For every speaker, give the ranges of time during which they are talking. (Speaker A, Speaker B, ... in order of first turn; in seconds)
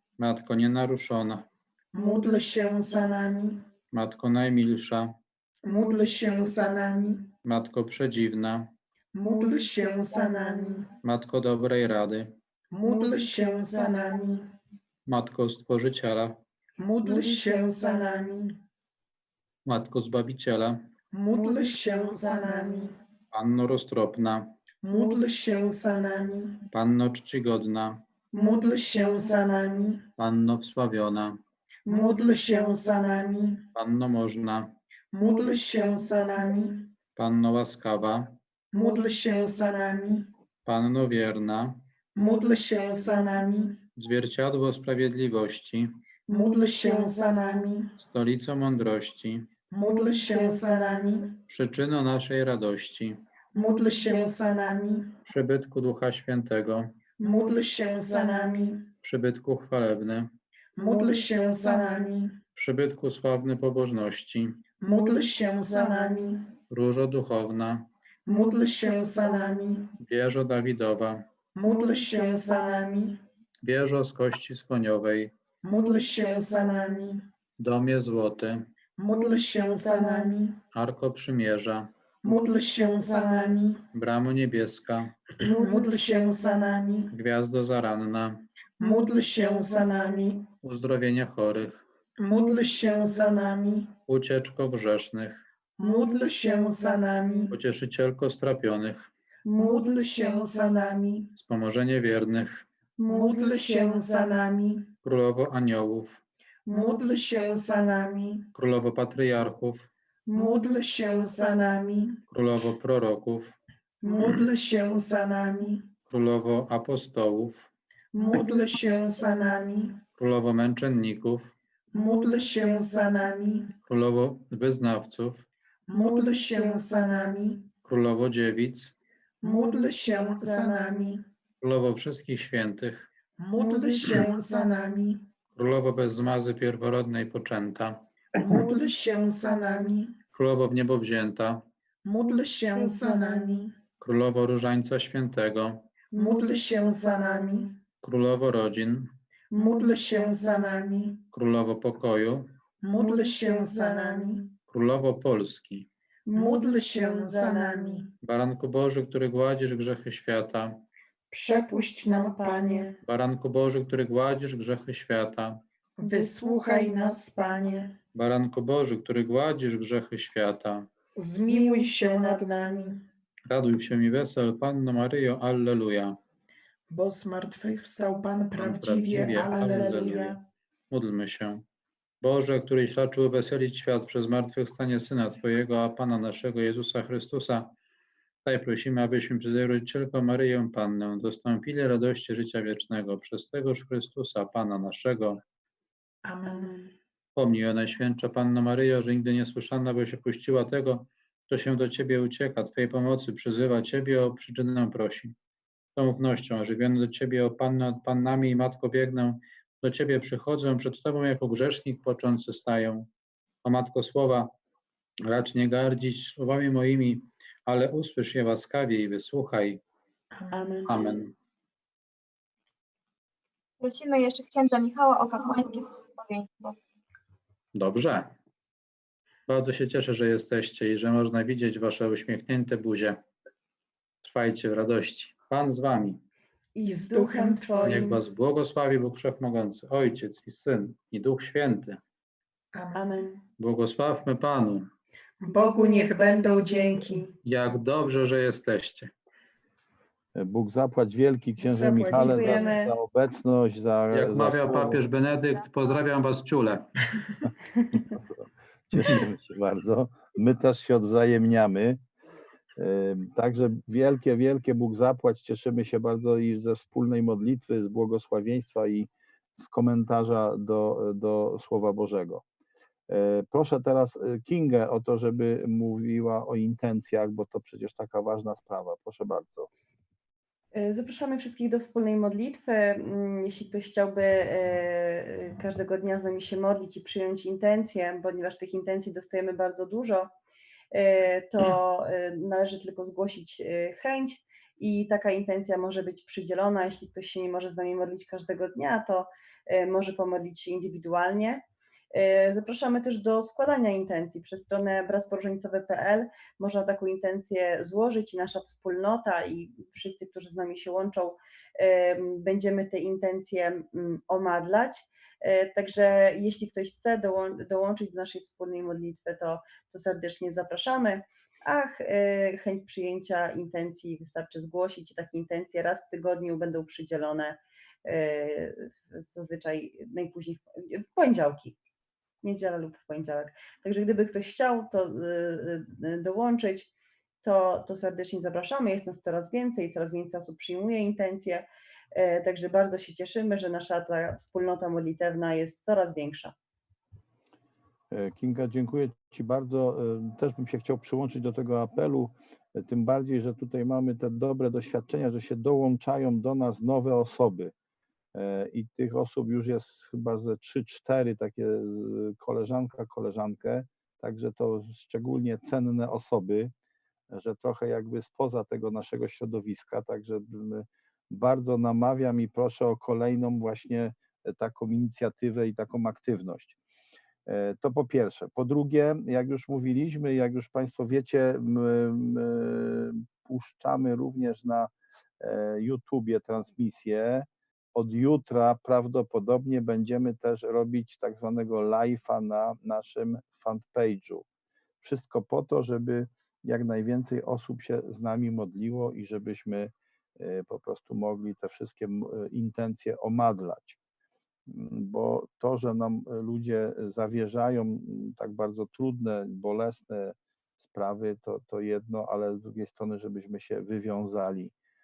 Speaker A: 0.2-1.5, 3.9-5.1, 7.4-8.7, 11.0-12.3, 15.1-16.4, 19.6-20.9, 23.3-24.5, 26.7-28.0, 30.2-31.4, 33.7-34.7, 37.2-38.4, 40.6-41.8, 44.0-46.0, 48.0-49.5, 51.5-53.2, 55.2-56.9, 59.0-60.3, 62.6-64.6, 66.7-67.9, 70.0-71.2, 73.6-75.3, 77.6-78.7, 80.7-81.9, 83.9-85.3, 87.1-88.5, 90.6-91.8, 94.1-95.4, 97.5-99.1, 101.4-102.6, 105.0-106.2, 108.5-109.9, 112.3-113.6, 116.1-117.7, 120.2-121.5, 123.9-125.5, 127.8-128.9, 131.6-133.1, 135.6-138.0, 140.3-141.6, 144.0-145.8, 148.0-149.1, 151.3-152.5, 154.7-155.9, 158.2-160.8, 163.0-165.6, 168.1-170.9, 173.5-176.2, 178.6-180.3, 180.9-181.6, 182.2-187.7, 188.4-195.4, 197.3-205.3, 205.9-213.1, 213.6-214.5, 215.2-219.8, 220.9-221.3, 227.7-228.3, 229.5-233.2, 234.2-236.2, 237.8-242.0, 243.6-244.9, 247.4-249.1, 254.1-256.9
Speaker B: 1.9-3.6, 5.6-7.3, 9.1-10.9, 12.7-14.5, 16.8-18.6, 21.1-22.9, 24.8-26.6, 28.3-30.0, 31.9-33.6, 35.1-36.9, 38.7-40.3, 42.1-43.8, 46.3-47.9, 49.7-51.3, 53.5-55.1, 57.2-58.9, 60.8-62.4, 64.8-66.5, 68.2-69.9, 71.5-73.2, 75.6-77.2, 79.0-80.6, 82.2-83.8, 85.4-87.1, 88.8-90.4, 92.2-93.9, 95.8-97.5, 99.5-101.3, 103.0-104.9, 106.7-108.5, 110.3-112.2, 114.0-115.9, 118.1-120.0, 121.9-123.7, 125.9-127.7, 129.4-131.2, 133.4-135.2, 138.4-140.1, 142.0-143.7, 146.1-147.8, 149.5-151.2, 152.8-154.5, 156.3-158.1, 161.3-162.9, 166.0-167.9, 171.2-173.0, 176.9-180.4, 196.2-196.9, 220.3-221.1, 236.8-238.2, 242.7-243.3, 245.4-247.3, 251.6-252.8
Speaker C: 22.1-22.7, 103.1-103.9, 129.5-131.0, 133.6-134.1, 153.1-154.3, 156.3-158.0, 162.4-162.8, 166.1-166.9, 179.5-180.2, 220.5-221.0, 236.7-238.1, 242.9-243.4, 245.6-246.1, 252.1-252.9, 280.7-290.3, 290.9-331.8, 332.4-336.9, 337.4-346.5
Speaker D: 223.8-226.8
Speaker E: 250.3-255.0, 258.1-262.0, 262.8-272.4, 273.1-279.7, 348.1-357.7, 358.3-366.7, 367.3-376.8, 377.4-394.4, 395.0-404.0, 404.7-414.7